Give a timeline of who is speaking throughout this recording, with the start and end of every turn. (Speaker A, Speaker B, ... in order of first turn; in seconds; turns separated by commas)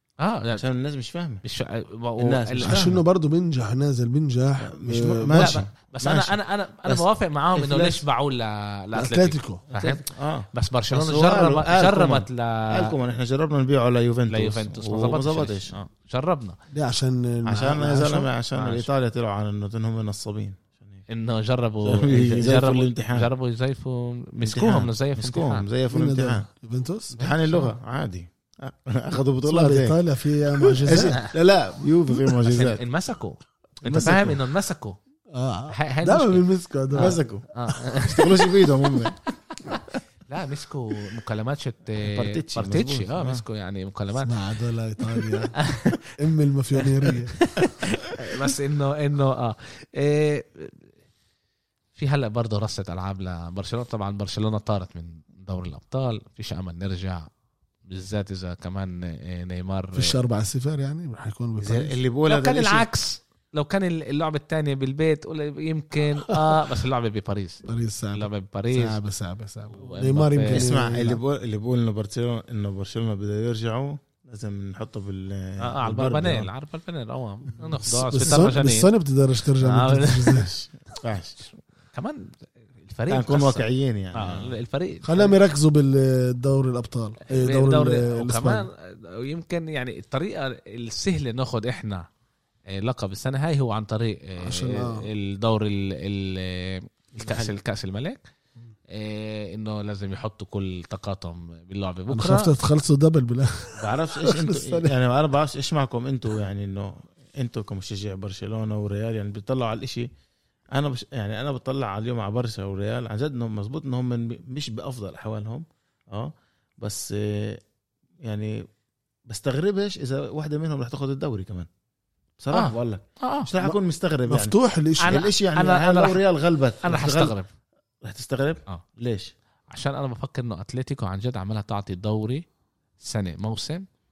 Speaker A: 0.2-0.6, Speaker B: 0.6-1.4, Speaker A: 1.4-2.9, Speaker B: 2.2-3.0, Speaker C: 2.6-5.6, Speaker B: 4.6-8.0, Speaker A: 5.3-12.9, Speaker C: 8.9-9.6, Speaker B: 9.7-15.7, Speaker A: 14.3-16.6, Speaker C: 16.7-18.3, Speaker B: 17.5-21.0, Speaker A: 18.6-18.9, Speaker A: 21.1-25.6, Speaker B: 21.8-23.3, Speaker B: 24.4-26.5, Speaker C: 25.9-27.2, Speaker B: 27.2-30.0, Speaker A: 27.2-27.7, Speaker C: 29.4-31.2, Speaker B: 30.6-32.8, Speaker A: 31.0-31.3, Speaker A: 32.5-35.0, Speaker C: 33.9-34.3, Speaker B: 33.9-34.4, Speaker C: 35.3-37.2, Speaker A: 35.7-38.4, Speaker B: 37.0-39.2, Speaker A: 39.7-44.4, Speaker B: 42.0-43.4, Speaker C: 44.2-45.6, Speaker A: 45.2-46.1, Speaker C: 46.2-47.4, Speaker A: 46.8-50.9, Speaker A: 52.0-57.3, Speaker A: 57.9-60.2, Speaker C: 60.0-62.0, Speaker B: 61.6-62.9, Speaker A: 62.3-69.0, Speaker C: 67.7-71.2, Speaker A: 69.7-70.7, Speaker B: 70.5-76.5, Speaker A: 75.6-78.9, Speaker C: 77.8-80.5, Speaker A: 79.6-80.5, Speaker B: 80.4-81.4, Speaker A: 81.9-85.3, Speaker B: 83.1-84.5, Speaker C: 85.0-88.7, Speaker A: 87.3-92.1, Speaker A: 92.7-98.2, Speaker C: 94.4-95.1, Speaker B: 97.2-97.5, Speaker A: 98.9-102.5, Speaker C: 102.1-104.9, Speaker B: 103.8-110.1, Speaker B: 110.7-117.6, Speaker B: 118.2-118.6, Speaker B: 119.3-121.7, Speaker B: 122.4-127.4, Speaker A: 122.5-123.5, Speaker C: 124.3-125.2, Speaker A: 125.0-126.2, Speaker A: 126.8-127.5, Speaker B: 128.0-129.3, Speaker A: 129.7-132.4, Speaker A: 133.0-133.9